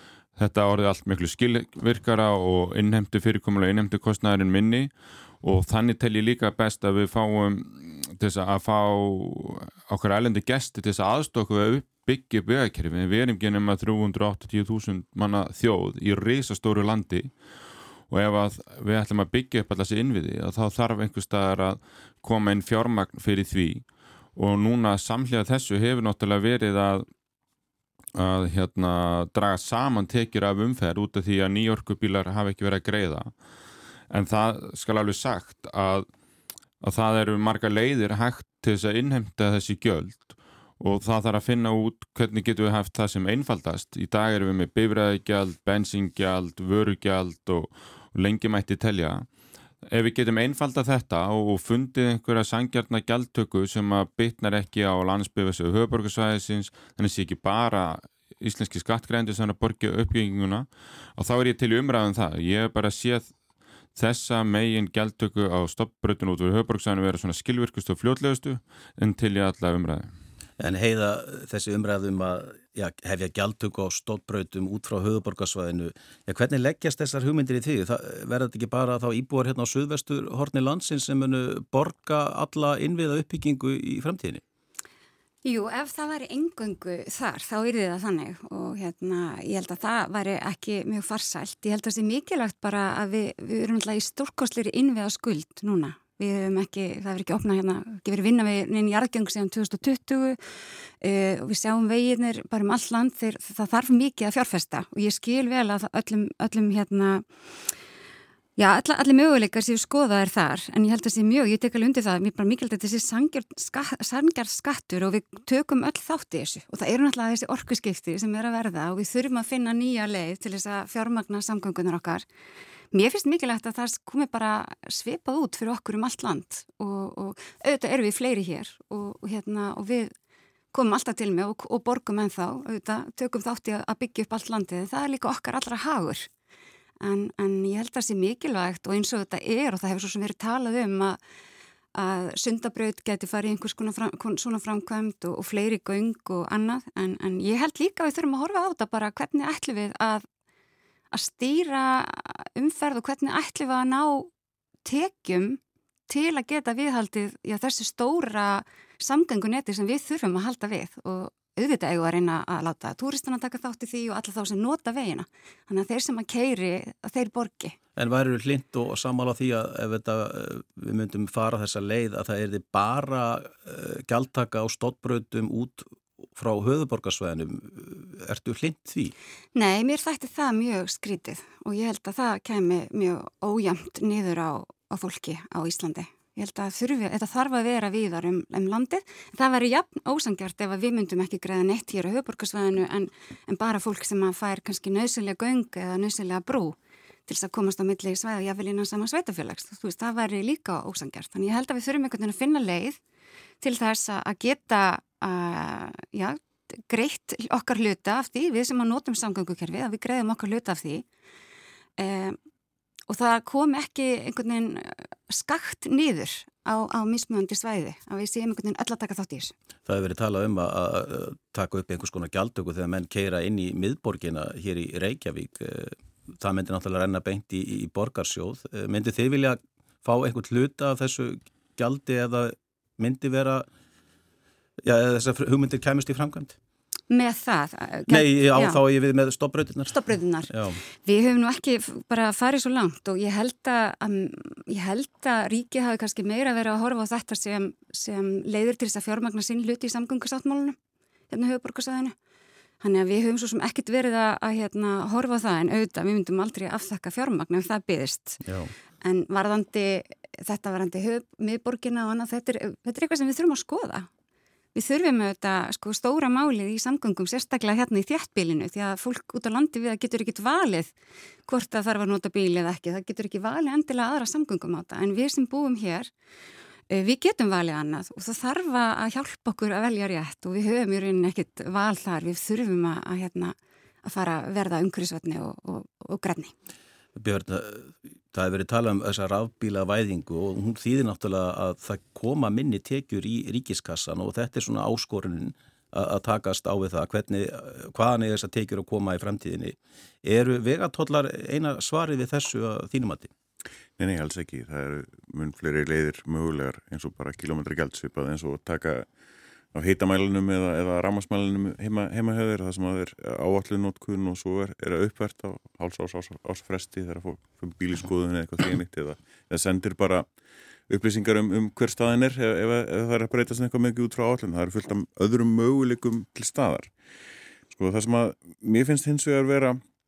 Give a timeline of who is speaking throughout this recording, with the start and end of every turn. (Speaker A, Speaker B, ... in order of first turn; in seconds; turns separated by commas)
Speaker A: 0.4-17.3, Speaker A: 18.1-23.8, Speaker A: 24.4-27.1, Speaker A: 28.1-33.3, Speaker A: 34.1-36.1, Speaker A: 36.8-49.3, Speaker A: 49.9-63.3, Speaker A: 63.9-70.1, Speaker B: 70.6-84.4, Speaker C: 85.4-100.4, Speaker C: 101.0-107.2, Speaker C: 108.6-122.2, Speaker C: 122.9-130.1, Speaker C: 130.7-136.3, Speaker C: 137.0-141.2, Speaker C: 141.9-150.2, Speaker C: 151.1-154.3, Speaker C: 154.8-167.8, Speaker B: 167.9-179.1, Speaker C: 179.5-196.8, Speaker C: 197.3-203.0, Speaker C: 203.6-211.0, Speaker C: 212.0-212.4, Speaker C: 213.1-219.5, Speaker B: 219.8-233.7, Speaker B: 234.8-236.5, Speaker C: 237.1-238.8, Speaker B: 238.1-240.8, Speaker C: 239.9-240.5, Speaker C: 241.0-250.8, Speaker C: 251.3-252.1, Speaker C: 252.8-258.4, Speaker B: 258.4-258.7, Speaker C: 259.0-264.1, Speaker C: 264.7-270.9, Speaker C: 271.4-276.1, Speaker C: 276.9-286.5, Speaker B: 287.1-303.3, Speaker D: 304.0-309.1, Speaker D: 309.7-320.3, Speaker D: 320.9-326.9, Speaker D: 327.7-329.8